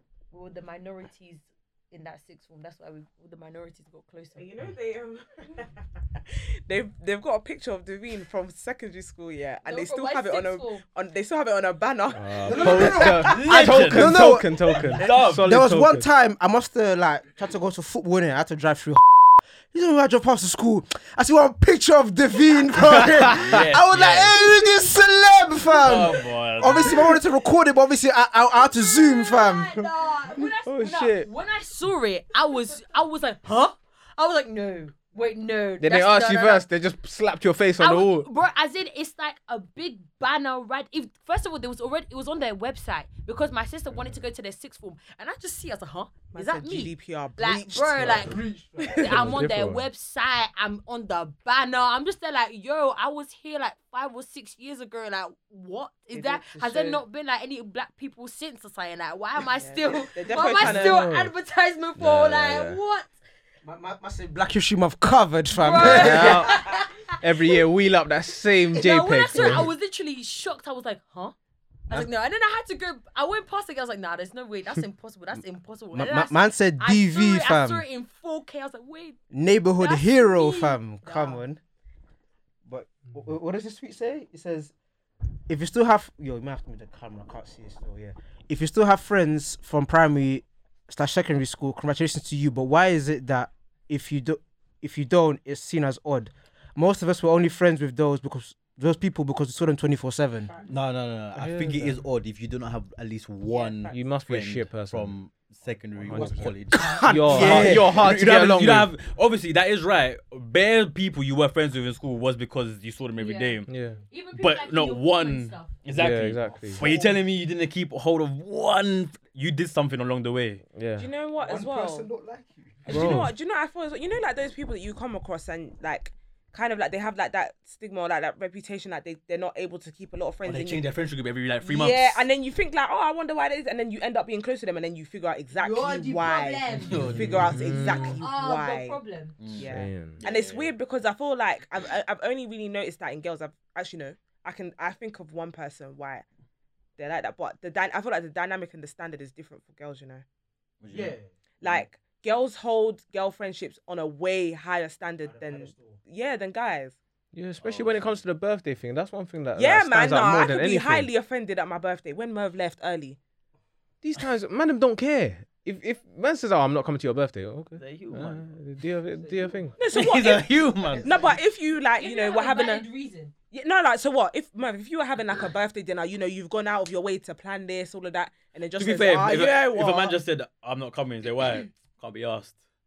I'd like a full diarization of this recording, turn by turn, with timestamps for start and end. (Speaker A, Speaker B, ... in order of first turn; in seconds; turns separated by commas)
Speaker A: 0.3-4.5, Speaker B: 4.3-13.5, Speaker A: 9.6-10.8, Speaker C: 12.1-16.1, Speaker D: 12.4-14.6, Speaker E: 13.0-15.5, Speaker D: 15.4-30.5, Speaker C: 23.1-23.6, Speaker E: 23.4-24.4, Speaker E: 25.8-27.2, Speaker A: 28.6-36.7, Speaker C: 30.6-31.3, Speaker C: 35.8-38.3, Speaker A: 37.8-63.1, Speaker B: 46.3-48.8, Speaker D: 47.8-49.3, Speaker C: 49.0-49.8, Speaker D: 56.1-57.0, Speaker B: 59.4-61.1, Speaker C: 60.5-61.3, Speaker C: 62.0-62.8, Speaker D: 63.6-66.6, Speaker A: 65.5-67.5, Speaker C: 65.8-69.7, Speaker B: 66.4-66.8, Speaker A: 68.7-71.3, Speaker D: 69.3-69.7, Speaker A: 71.9-79.2, Speaker D: 75.9-77.8, Speaker D: 79.3-81.6, Speaker A: 79.8-81.4, Speaker D: 82.6-84.7, Speaker D: 85.5-100.5, Speaker E: 100.7-113.7, Speaker C: 101.3-102.0, Speaker B: 103.5-104.1, Speaker C: 103.9-105.2, Speaker C: 106.0-108.9, Speaker D: 106.1-108.1, Speaker A: 113.2-115.7, Speaker C: 113.7-114.0, Speaker E: 114.3-120.6, Speaker C: 115.9-116.8, Speaker D: 116.4-117.2, Speaker C: 120.7-121.1, Speaker B: 121.0-122.1, Speaker D: 121.4-123.3, Speaker B: 122.8-130.9, Speaker C: 122.9-123.3, Speaker E: 130.4-132.2, Speaker B: 131.6-139.0, Speaker A: 135.6-139.3, Speaker E: 136.8-137.6, Speaker C: 137.1-138.2, Speaker E: 139.4-140.7, Speaker B: 139.5-146.2, Speaker C: 139.6-140.2, Speaker B: 147.0-150.2, Speaker E: 150.8-151.8, Speaker D: 150.9-151.3, Speaker B: 151.6-157.0, Speaker D: 155.2-156.0, Speaker C: 157.3-161.1, Speaker E: 157.6-158.2, Speaker B: 159.5-163.2, Speaker C: 164.0-169.8, Speaker E: 167.8-168.4, Speaker D: 169.2-169.7, Speaker B: 169.8-172.9, Speaker E: 169.9-171.3, Speaker D: 171.0-171.3, Speaker A: 172.0-173.3, Speaker B: 173.5-180.2, Speaker E: 178.8-182.6, Speaker D: 179.2-179.5